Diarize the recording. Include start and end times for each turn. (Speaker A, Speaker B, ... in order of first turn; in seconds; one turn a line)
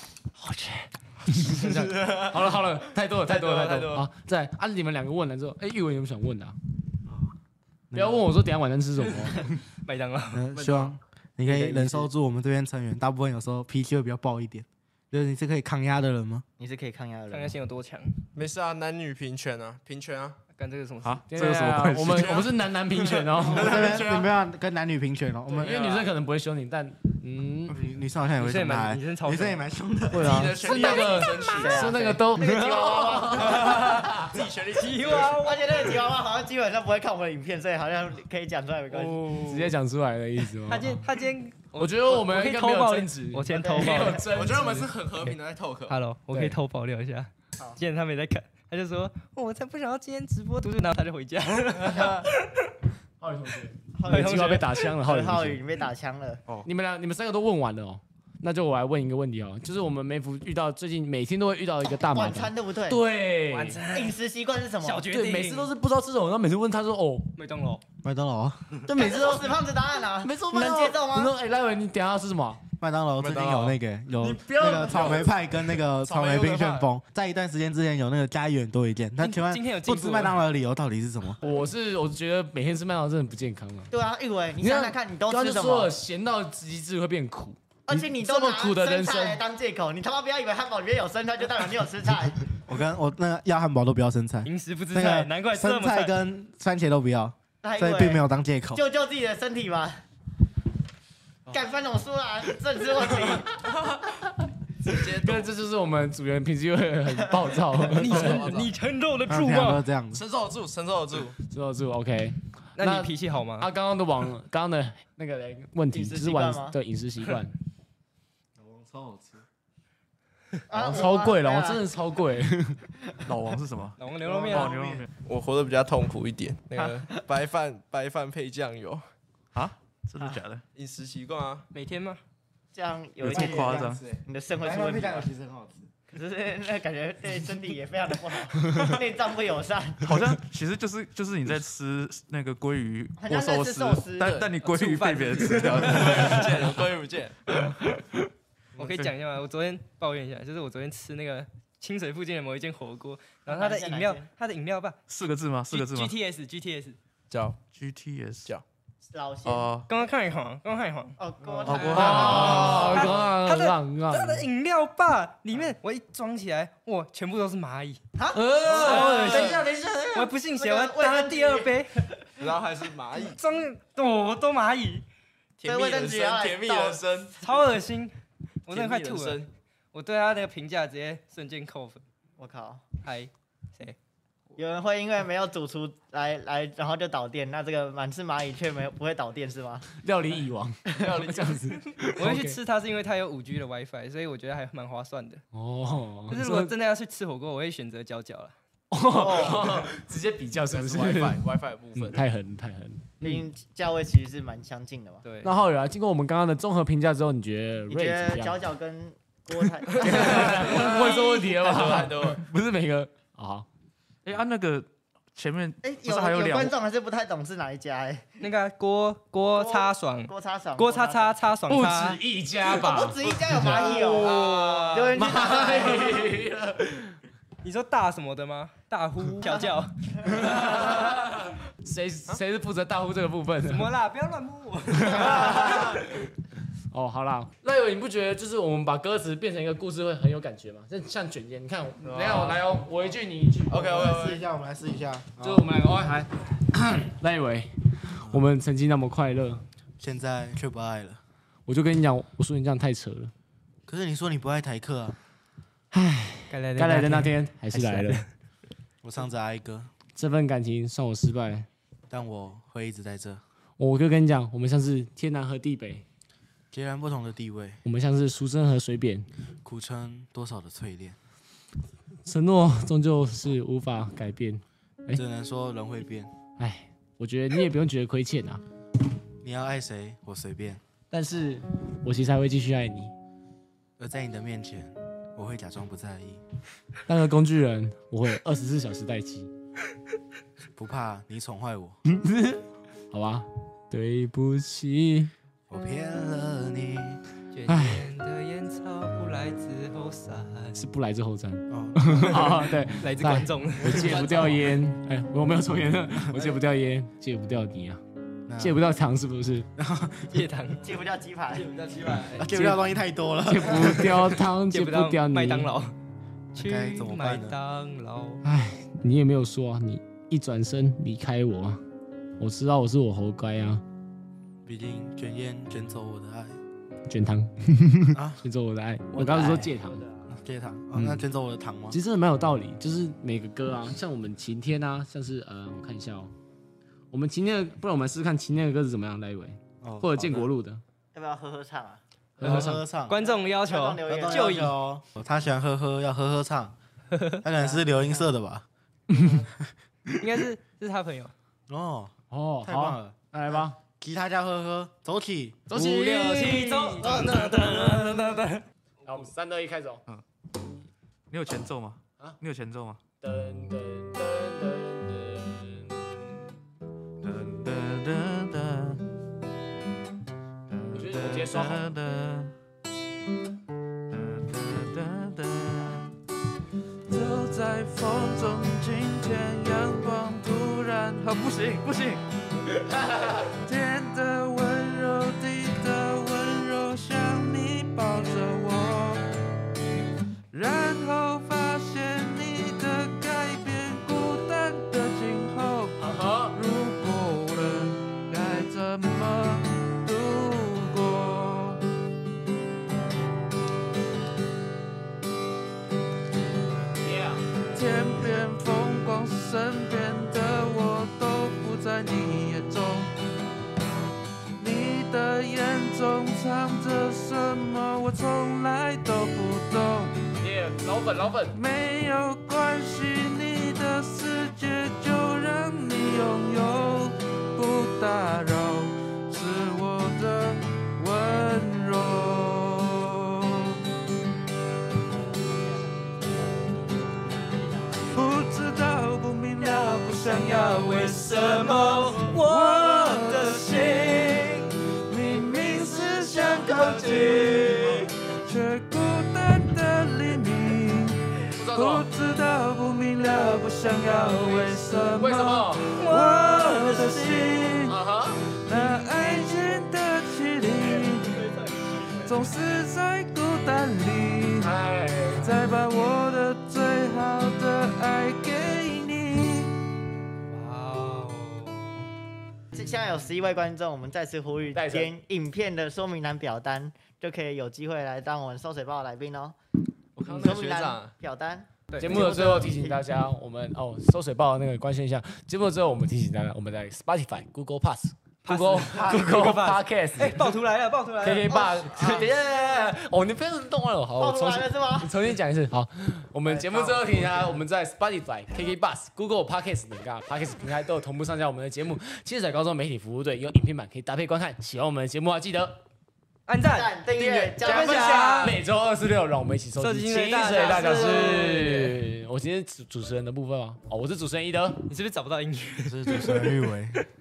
Speaker A: 0.4-6.6
Speaker B: 1.3-2.6
Speaker B: 3.2-4.1
Speaker C: 7.9-8.2
Speaker A: 7.9-9.4
Speaker D: 9.8-10.5
Speaker C: 10.3-16.4
Speaker B: 10.6-11.0
Speaker A: 11.5-12.1
Speaker E: 16.6-17.6
Speaker D: 17.3-18.2
Speaker B: 18.3-20.4
Speaker D: 20.6-21.2
Speaker F: 21.0-22.4
Speaker A: 21.3-24.0
Speaker B: 22.1-24.3
Speaker C: 23.5-25.8
Speaker B: 25.5-26.1
Speaker A: 25.6-27.8
Speaker C: 27.7-30.5
Speaker D: 28.4-29.6
Speaker A: 30.1-34.3
Speaker B: 30.1-32.0
Speaker E: 30.7-33.8
Speaker B: 33.3-36.0
Speaker D: 34.8-35.9
Speaker E: 35.4-39.4
Speaker D: 38.9-39.4
Speaker A: 39.3-41.0
Speaker D: 40.7-44.2
Speaker A: 41.8-44.9
Speaker E: 43.5-44.2
Speaker B: 44.2-46.0
Speaker D: 45.9-52.3
Speaker A: 46.3-46.6
Speaker A: 53.2-55.6
Speaker E: 54.0-56.4
Speaker D: 54.1-54.7
Speaker A: 56.6-63.8
Speaker E: 62.1-63.0
Speaker D: 63.5-64.2
Speaker E: 63.9-65.0
Speaker D: 64.8-65.7
Speaker A: 65.1-67.3
Speaker D: 67.4-67.8
Speaker C: 68.0-68.7
Speaker A: 68.8-69.6
Speaker E: 69.0-71.3
Speaker A: 70.2-72.6
Speaker C: 72.8-81.4
Speaker B: 73.2-73.8
Speaker A: 74.4-75.0
Speaker B: 74.8-75.3
Speaker B: 76.0-76.9
Speaker D: 79.2-80.4
Speaker A: 81.4-83.9
Speaker E: 83.9-85.9
Speaker A: 84.6-89.4
Speaker E: 87.9-92.5
Speaker C: 92.7-98.8
Speaker D: 94.4-96.1
Speaker E: 97.6-100.0
Speaker E: 101.5-103.6
Speaker B: 103.7-104.0
Speaker B: 104.8-105.5
Speaker A: 105.2-108.5
Speaker D: 107.9-109.8
Speaker B: 107.9-108.7
Speaker C: 109.3-110.2
Speaker B: 110.1-111.3
Speaker A: 111.5-117.5
Speaker D: 112.8-113.7
Speaker E: 115.9-116.8
Speaker C: 118.6-119.4
Speaker E: 120.7-121.8
Speaker A: 120.7-122.8
Speaker F: 123.3-124.0
Speaker D: 124.0-124.8
Speaker C: 124.2-125.0
Speaker F: 124.5-125.1
Speaker B: 125.2-129.0
Speaker F: 129.5-130.6
Speaker B: 130.8-131.7
Speaker D: 131.7-132.2
Speaker E: 132.7-135.3
Speaker F: 133.2-134.0
Speaker C: 133.8-135.8
Speaker E: 136.1-140.2
Speaker F: 140.0-146.4
Speaker E: 143.2-144.4
Speaker B: 144.2-144.9
Speaker D: 144.6-146.5
Speaker B: 145.4-147.6
Speaker D: 148.8-155.0
Speaker E: 153.4-154.3
Speaker F: 155.1-156.1
Speaker D: 155.7-157.0
Speaker B: 157.3-157.7
Speaker F: 157.6-158.5
Speaker E: 159.1-159.7
Speaker F: 159.5-159.9
Speaker D: 159.9-168.0
Speaker E: 161.2-163.1
Speaker F: 161.7-162.6
Speaker A: 161.9-164.5
Speaker B: 162.3-163.3
Speaker E: 168.2-169.3
Speaker A: 168.3-170.3
Speaker B: 168.6-169.7
Speaker D: 168.7-169.6
Speaker D: 170.1-171.9
Speaker E: 170.6-172.2
Speaker B: 172.4-173.4
Speaker D: 173.2-175.1
Speaker B: 175.6-177.4
Speaker E: 175.7-177.1
Speaker D: 177.4-178.1
Speaker D: 178.7-182.0
Speaker B: 178.7-179.5
Speaker E: 182.4-182.8
Speaker D: 183.0-183.9
Speaker E: 184.6-189.9
Speaker A: 190.0-192.6
Speaker B: 190.9-191.8
Speaker D: 192.2-195.4
Speaker A: 195.5-196.7
Speaker D: 196.3-198.5
Speaker A: 198.9-201.4
Speaker E: 199.1-199.9
Speaker B: 200.7-202.2
Speaker A: 201.9-203.4
Speaker E: 203.2-205.2
Speaker D: 205.2-205.5
Speaker A: 205.4-208.6
Speaker E: 207.9-211.2
Speaker A: 210.0-213.7
Speaker B: 210.1-212.4
Speaker F: 214.2-216.7
Speaker E: 215.8-218.3
Speaker D: 218.4-222.2
Speaker E: 219.5-221.4
Speaker A: 221.7-224.1
Speaker E: 222.7-226.3
Speaker D: 223.6-225.8
Speaker B: 224.1-225.1
Speaker A: 225.1-227.1
Speaker D: 227.6-229.9
Speaker A: 230.3-233.9
Speaker D: 233.6-235.8
Speaker A: 235.1-236.0
Speaker A: 236.9-244.1
Speaker B: 242.0-242.8
Speaker B: 243.7-244.5
Speaker C: 243.8-245.7
Speaker A: 245.4-249.6
Speaker C: 250.0-251.2
Speaker A: 251.7-253.3
Speaker C: 253.9-255.2
Speaker A: 255.9-258.2
Speaker D: 256.5-258.2
Speaker C: 259.0-259.9
Speaker A: 260.1-261.7
Speaker C: 262.1-263.4
Speaker A: 263.8-266.0
Speaker C: 266.7-267.8
Speaker A: 267.8-269.3
Speaker C: 269.6-271.2
Speaker A: 272.3-275.2
Speaker C: 275.1-276.3
Speaker A: 276.6-278.6
Speaker C: 279.4-280.8
Speaker A: 281.1-283.1
Speaker C: 284.0-286.4
Speaker A: 287.1-289.5
Speaker C: 290.8-292.0
Speaker A: 292.1-295.3
Speaker C: 295.7-297.2
Speaker D: 297.5-300.8
Speaker A: 297.7-298.1
Speaker A: 300.7-308.0
Speaker C: 301.7-302.6
Speaker D: 303.0-304.6
Speaker C: 303.9-304.1
Speaker B: 304.1-304.6
Speaker C: 306.3-306.6
Speaker C: 308.5-308.8
Speaker A: 308.6-309.7
Speaker C: 309.8-310.4
Speaker D: 310.3-310.8
Speaker E: 310.8-311.7
Speaker D: 311.5-312.4
Speaker B: 311.6-312.4
Speaker C: 312.4-314.4
Speaker A: 312.5-312.8
Speaker A: 313.4-315.7
Speaker D: 314.7-315.9
Speaker C: 316.6-317.6
Speaker D: 316.6-318.4
Speaker A: 318.4-321.8
Speaker A: 322.4-323.8
Speaker C: 324.7-326.6
Speaker A: 327.1-330.1
Speaker C: 328.1-328.4
Speaker C: 330.3-332.0
Speaker A: 330.9-331.2
Speaker A: 331.9-336.3
Speaker A: 337.1-340.8
Speaker C: 339.8-340.5
Speaker E: 341.1-342.0
Speaker A: 342.4-342.8
Speaker C: 342.4-343.2
Speaker D: 342.4-344.8
Speaker E: 343.2-344.7
Speaker C: 344.1-346.8
Speaker D: 347.1-347.4
Speaker C: 347.4-348.6
Speaker E: 347.5-348.3
Speaker D: 350.2-351.3
Speaker C: 351.7-352.1
Speaker A: 352.3-353.8
Speaker C: 352.6-356.1
Speaker A: 355.7-357.4
Speaker D: 355.8-359.3
Speaker C: 356.6-357.3
Speaker A: 359.1-360.0
Speaker F: 361.3-363.0
Speaker A: 363.2-365.9
Speaker F: 367.2-369.0
Speaker F: 370.7-372.5
Speaker A: 370.9-371.9
Speaker F: 374.1-376.1
Speaker F: 377.1-382.2
Speaker F: 383.7-389.2
Speaker F: 390.5-395.9
Speaker A: 396.0-396.6
Speaker F: 396.6-401.8
Speaker A: 407.0-407.4
Speaker F: 408.0-413.1
Speaker F: 414.6-420.1
Speaker A: 420.4-421.6
Speaker F: 421.5-433.7
Speaker E: 435.4-435.7
Speaker F: 438.2-443.4
Speaker D: 439.6-444.7
Speaker F: 445.1-447.9
Speaker D: 446.2-448.0
Speaker F: 448.5-451.1
Speaker A: 451.6-452.1
Speaker F: 451.7-455.6
Speaker D: 453.2-454.8
Speaker A: 455.1-455.9
Speaker D: 455.9-457.8
Speaker A: 457.9-458.4
Speaker D: 458.7-459.9
Speaker F: 458.7-461.3
Speaker D: 460.9-462.3
Speaker F: 462.3-464.6
Speaker A: 464.6-465.6
Speaker F: 465.4-469.7
Speaker D: 470.5-472.0
Speaker E: 472.7-479.6
Speaker A: 474.7-475.1
Speaker B: 480.2-481.1
Speaker A: 480.3-480.5
Speaker E: 480.3-483.0
Speaker D: 481.9-482.3
Speaker A: 482.0-490.6
Speaker D: 488.4-492.2
Speaker A: 491.2-505.8
Speaker E: 491.4-492.9
Speaker E: 494.2-495.1
Speaker E: 496.4-497.6
Speaker D: 506.5-508.6
Speaker E: 506.7-508.6
Speaker A: 507.6-514.8
Speaker D: 509.8-512.0
Speaker E: 510.4-511.7
Speaker D: 514.9-516.6
Speaker C: 515.8-517.0